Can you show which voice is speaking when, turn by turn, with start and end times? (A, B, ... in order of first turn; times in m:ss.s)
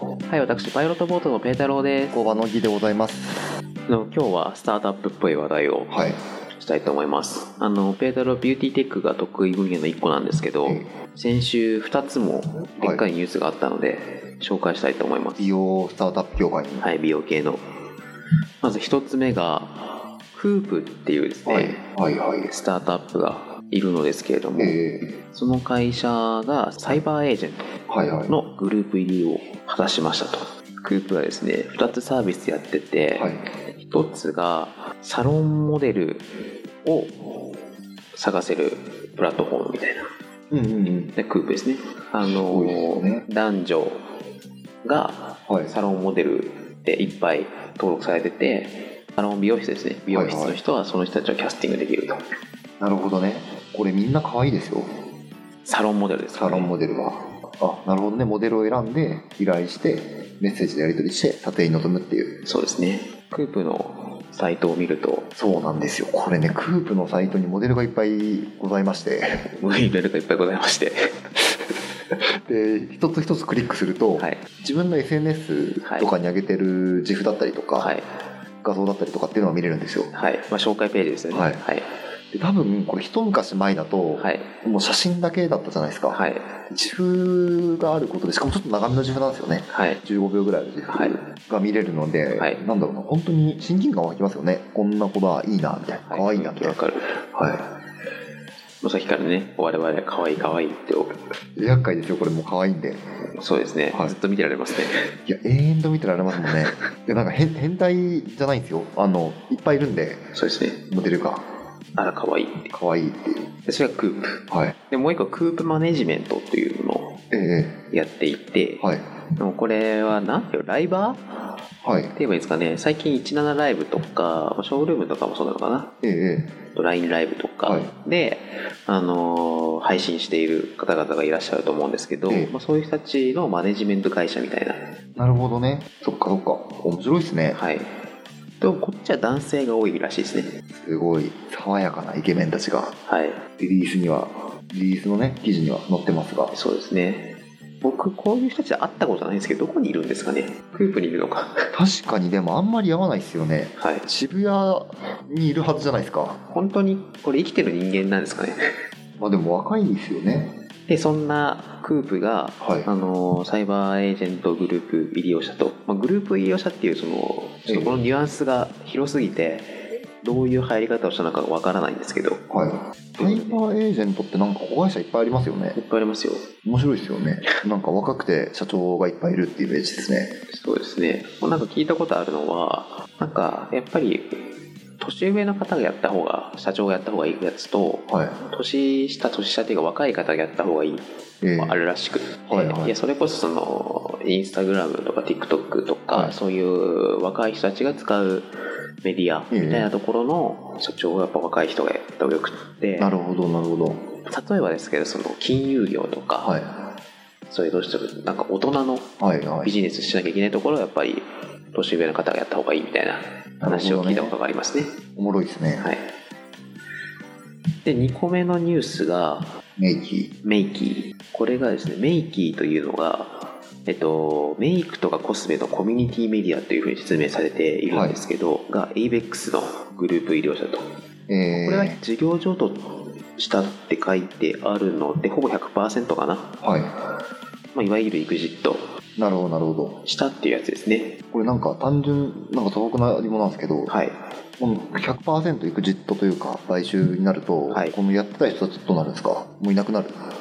0:00.2-0:02.2 A
0:02.1-0:03.4 B
0:03.9-0:06.0 A
0:05.9-0:06.2 B
0:06.5-0:15.5 A
0:10.6-0:10.9 B
0:12.8-0:13.0 B
0:15.4-0:16.9 B
0:16.8-0:17.6 A
0:18.6-0:21.8 A
0:21.4-0:22.6 B
0:22.5-0:27.7 A
0:24.6-0:25.1 B
0:27.9-0:28.3 B
0:28.3-0:36.3 A
0:33.1-0:33.4 B
0:36.8-0:37.4 A
0:38.1-0:40.1 A
0:40.5-0:41.1 B
0:41.2-0:44.0 A
0:42.2-0:43.2 B
0:44.8-0:52.2 A
0:45.5-0:45.7 B
0:50.1-0:50.6 B
0:52.8-0:54.9 B
0:55.6-0:56.7 A
0:56.3-1:02.3 B
1:02.4-1:05.3 A
1:05.4-1:09.5 B
1:09.5-1:11.1 A
1:12.4-1:17.9 B
1:14.2-1:14.4 A
1:15.8-1:16.1 A
1:17.8-1:18.0 A
1:18.6-1:20.1 B
1:20.1-1:21.9 A
1:21.3-1:21.6 B
1:22.3-1:36.8 B
1:24.2-1:24.5 A
1:26.1-1:26.6 A
1:29.7-1:30.0 A
1:30.9-1:31.2 A
1:32.3-1:32.6 A
1:36.1-1:37.1 A
1:37.3-1:37.7 B
1:38.8-1:41.2 A
1:41.6-1:43.0 B
1:43.4-1:45.1 A
1:45.3-1:50.3 B
1:50.3-1:50.8 A
1:50.9-1:51.4 B
1:52.0-1:52.7 A
1:52.7-1:53.5 B
1:53.6-1:57.2 A
1:57.3-1:57.8 B
1:57.9-1:58.8 A
1:58.8-1:59.0 B
1:59.4-2:01.4 A
2:01.8-2:02.1 B
2:02.1-2:05.9 A
2:06.0-2:06.5 B
2:06.7-2:14.8 A
2:07.6-2:07.9 B
2:12.3-2:12.5 B
2:15.2-2:17.6 B
2:17.5-2:17.9 A
2:18.6-2:20.5 A
2:20.8-2:22.9 B
2:23.1-2:23.4 A
2:23.6-2:26.5 B
2:26.5-2:31.7 A
2:31.7-2:36.4 B
2:33.8-2:34.0 A
2:36.5-2:38.6 A
2:39.2-2:40.6 B
2:40.9-2:52.4 A
2:42.6-2:42.9 B
2:47.7-2:48.1 B
2:52.5-2:55.8 B
2:53.2-2:53.6 A
2:55.7-2:56.5 A
2:56.6-3:00.3 B
3:00.5-3:04.5 A
3:05.0-3:11.0 A
3:08.1-3:08.4 B
3:11.4-3:11.8 B
3:11.6-3:18.5 A
3:12.5-3:13.0 B
3:16.1-3:16.4 B
3:19.0-3:23.1 A
3:19.5-3:19.9 B
3:23.0-3:24.0 B
3:24.2-3:26.6 A
3:26.4-3:26.7 B
3:27.5-3:29.1 A
3:29.2-3:29.7 B
3:29.6-3:35.0 A
3:33.6-3:34.3 B
3:35.2-3:35.9 B
3:35.8-3:36.1 A
3:37.8-3:39.5 A
3:39.8-3:40.3 B
3:40.4-3:50.9 A
3:47.9-3:48.2 B
3:51.3-3:52.0 B
3:51.5-3:56.5 A
3:56.6-3:56.9 B
3:57.7-3:58.9 A
3:59.2-4:00.0 B
4:00.0-4:01.2 A
4:01.3-4:03.9 B
4:03.9-4:04.2 A
4:04.6-4:10.2 B
4:07.7-4:08.0 A